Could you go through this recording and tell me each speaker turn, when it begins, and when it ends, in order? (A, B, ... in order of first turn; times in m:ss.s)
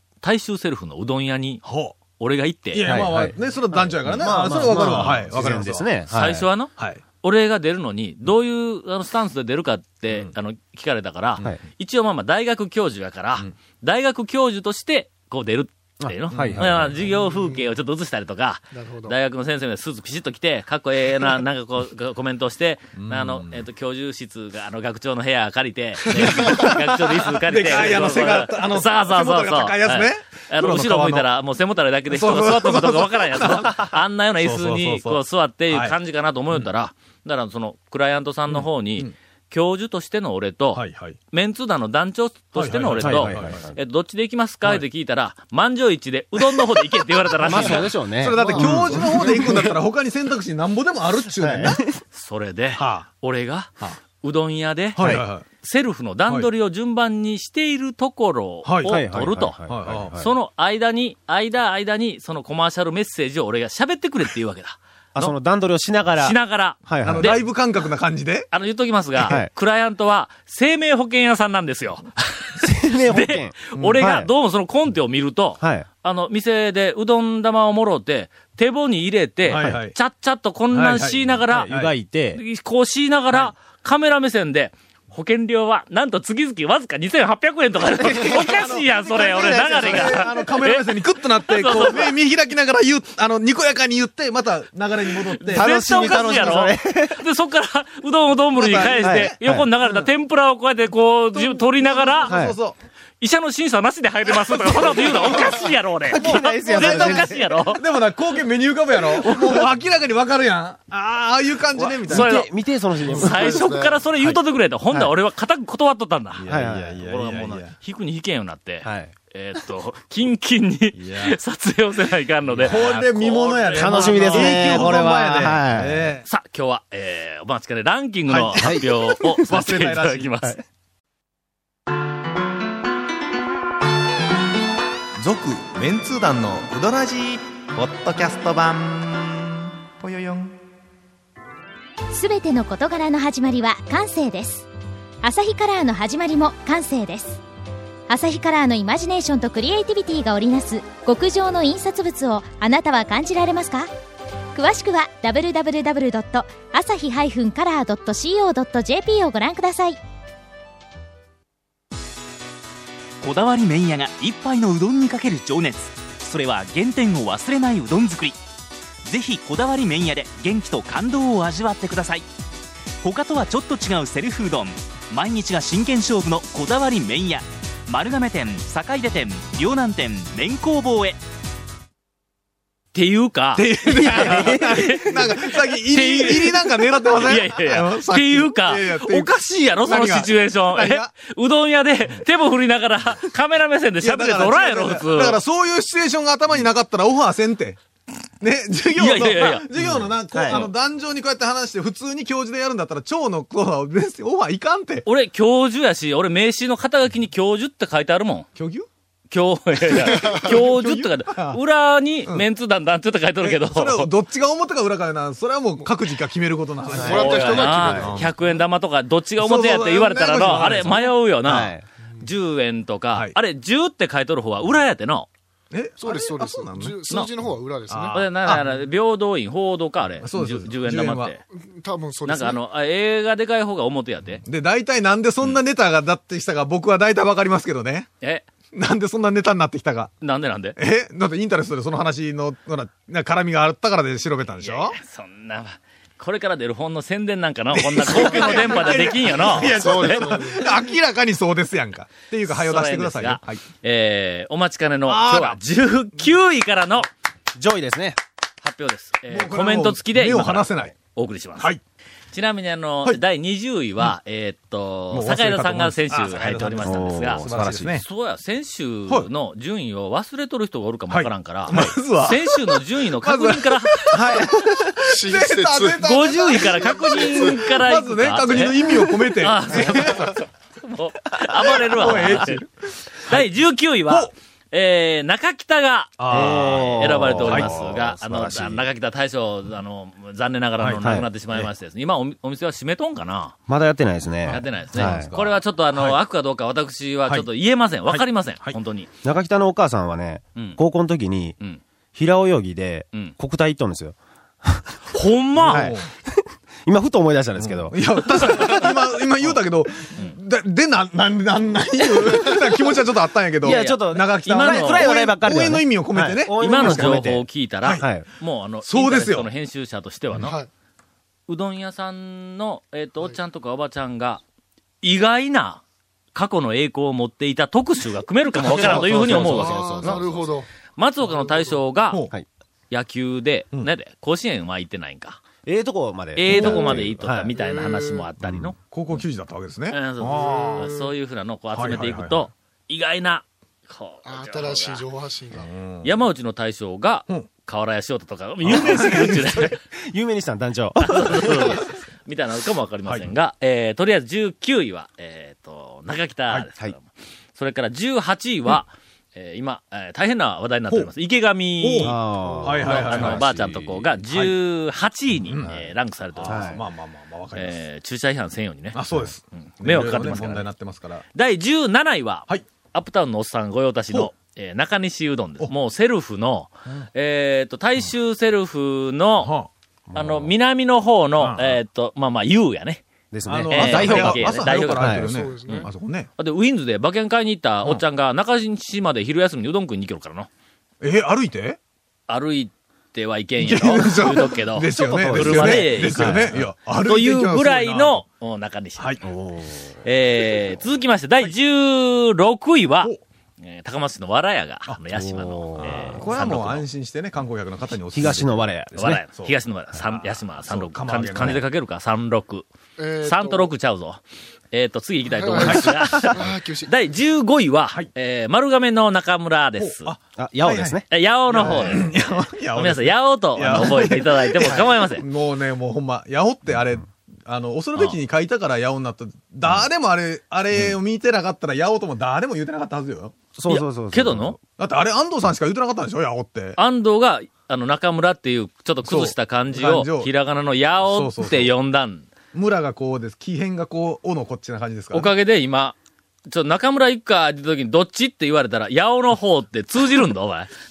0:00.2-0:03.1 A
0:01.6-0:02.0 B
0:02.7-0:05.9 B
0:02.8-0:06.5 C
0:06.1-0:48.0 A
0:06.8-0:07.0 B
0:10.1-0:10.3 B
0:16.0-0:16.9 C
0:16.3-0:17.0 B
0:17.3-0:17.6 D
0:18.7-0:19.2 D
0:23.0-0:23.6 B
0:26.1-0:26.8 B
0:27.4-0:31.3 B
0:32.1-0:36.0 B
0:38.5-0:39.1 B
0:40.8-0:41.2 B
0:42.6-0:43.6 B
0:43.0-0:43.8 C
0:46.4-0:46.7 B
0:47.4-0:51.8 B
0:47.4-0:48.9 C
0:48.3-0:49.5 D
0:51.4-0:52.0 C
0:52.1-0:59.6 A
0:52.8-0:53.1 B
0:55.0-0:55.4 B
0:55.0-0:55.2 C
0:58.6-0:59.0 B
0:58.8-1:00.3 C
0:59.7-1:00.2 B
1:00.1-1:05.4 A
1:05.2-1:07.4 C
1:06.2-1:07.4 A
1:07.0-1:08.5 B
1:08.5-1:21.7 A
1:09.2-1:09.5 C
1:12.6-1:14.3 C
1:13.8-1:14.1 B
1:15.6-1:15.9 C
1:19.4-1:20.0 B
1:19.5-1:19.8 C
1:20.7-1:22.0 B
1:21.5-1:22.4 C
1:22.3-1:30.9 A
1:28.0-1:30.4 C
1:28.1-1:36.6 B
1:31.4-1:32.1 A
1:35.4-1:42.4 A
1:35.4-1:37.2 C
1:38.6-1:40.1 B
1:39.0-1:39.7 C
1:41.3-1:42.8 B
1:42.3-1:42.6 C
1:43.2-1:47.8 A
1:44.4-1:45.5 B
1:46.0-1:47.6 C
1:46.1-1:52.5 B
1:49.1-1:49.7 C
1:51.7-1:53.6 C
1:52.1-1:52.5 A
1:53.1-1:54.1 D
1:53.1-2:05.1 A
1:56.4-1:57.8 B
1:56.4-1:57.0 C
1:58.8-1:59.1 C
2:01.0-2:01.4 B
2:02.6-2:06.3 B
2:03.7-2:06.1 C
2:06.2-2:10.6 A
2:08.3-2:08.9 B
2:08.6-2:09.5 C
2:09.4-2:10.4 B
2:15.3-2:17.1 B
2:15.3-2:20.5 E
2:17.8-2:19.0 B
2:22.1-2:24.7 F
2:25.2-2:27.4 F
2:28.1-2:33.9 F
2:34.6-2:40.0 F
2:43.2-2:48.4 G
2:49.1-2:52.3 G
2:53.0-3:01.2 G
3:02.9-3:15.4 A
3:03.6-3:11.1 B
3:03.9-3:05.0 C
3:14.0-3:17.8 B
3:18.4-3:25.1 B
3:19.0-3:19.6 A
3:19.8-3:20.7 C
3:25.1-3:28.5 A
3:28.6-3:28.9 B
3:29.3-3:34.1 A
3:30.4-3:31.6 B
3:33.4-3:38.5 B
3:36.9-3:38.1 D
3:36.9-3:38.1 C
3:37.0-3:45.3 A
3:39.4-3:41.7 B
3:41.4-3:41.8 C
3:45.7-3:47.0 B
3:46.0-3:48.2 D
3:47.9-3:48.7 B
3:48.1-3:51.4 A
3:50.2-3:51.4 B
3:51.5-3:52.6 D
3:52.2-3:54.4 A
3:54.4-3:58.1 B
3:58.2-3:58.5 A
3:58.7-4:00.2 B
4:00.2-4:00.8 A
4:00.8-4:05.0 B
4:04.5-4:10.3 A
4:07.7-4:13.6 B
4:08.5-4:08.8 D
4:09.6-4:10.8 D
4:12.4-4:17.1 A
4:15.0-4:15.6 B
4:17.6-4:18.2 C
4:18.6-4:21.7 A
4:19.3-4:21.0 B
4:22.3-4:34.2 A
4:25.1-4:28.0 B
4:26.4-4:28.0 C
4:31.1-4:40.4 B
4:35.0-4:37.6 D
4:36.0-4:42.6 A
4:41.6-4:43.5 B
4:43.3-4:53.6 A
4:46.2-4:47.8 B
4:46.3-4:48.9 C
4:50.8-4:51.7 B
4:51.0-4:51.3 C
4:53.7-4:55.3 C
4:54.5-4:56.2 B
4:54.5-4:59.1 A
4:58.1-4:58.8 B
4:59.2-5:01.6 C
5:02.1-5:05.0 C
5:05.1-5:05.9 A
5:05.6-5:06.0 B
5:05.7-5:08.9 C
5:07.6-5:17.2 B
5:13.6-5:18.3 C
5:13.6-5:15.2 A
5:16.6-5:20.6 A
5:18.8-5:19.5 B
5:20.4-5:20.7 D
5:21.5-5:24.4 A
5:25.0-5:25.8 A
5:26.3-5:29.8 A
5:28.6-5:30.2 B
5:28.7-5:30.5 C
5:28.9-5:30.7 D
5:31.0-5:32.2 A
5:31.2-5:31.8 D
5:32.0-5:32.3 B
5:32.9-5:35.4 A
5:35.6-5:37.5 C
5:36.4-5:38.8 A
5:36.5-5:37.2 B
5:37.5-5:38.3 D
5:38.5-5:38.7 C
5:38.8-5:40.9 B
5:39.9-5:45.1 A
5:40.2-5:41.1 D
5:41.7-5:42.5 B
5:44.2-5:45.7 D
5:45.6-5:46.2 B
5:46.0-5:49.8 A
5:48.6-5:51.8 C
5:48.7-5:49.4 B
5:51.0-6:06.8 A
5:53.0-5:53.3 B
6:01.8-6:03.5 B
6:02.0-6:04.2 C
6:04.3-6:04.6 B
6:05.5-6:05.8 B
6:06.4-6:07.8 B
6:06.4-6:06.8 C
6:07.6-6:09.0 A
6:08.9-6:11.2 B
6:09.5-6:10.7 A
6:11.3-6:19.5 A
6:19.4-6:19.7 B
6:20.1-6:20.6 C
6:20.1-6:23.0 A
6:21.4-6:21.8 B
6:23.3-6:25.3 C
6:23.5-6:26.3 B
6:23.7-6:30.5 A
6:25.2-6:25.9 D
6:31.0-6:31.8 B
6:32.3-6:39.2 A
6:33.6-6:38.2 B
6:35.0-6:36.7 C
6:39.0-6:39.2 B
6:39.2-6:40.0 C
6:40.0-6:46.9 A
6:45.1-6:46.3 C
6:45.8-6:49.6 B
6:48.1-6:49.2 C
6:49.0-6:52.7 A
6:50.1-6:51.6 B
6:53.0-6:53.7 D
6:53.2-7:00.1 A
6:55.3-6:56.9 D
6:55.6-6:56.4 B
6:59.8-7:13.3 B
7:00.4-7:02.1 C
7:01.1-7:05.2 A
7:04.6-7:04.9 C
7:13.6-7:14.6 C
7:13.7-7:14.6 A
7:14.8-7:16.8 B
7:16.8-7:22.3 A
7:19.0-7:20.3 B
7:21.0-7:21.8 B
7:22.5-7:25.3 B
7:25.1-7:30.7 A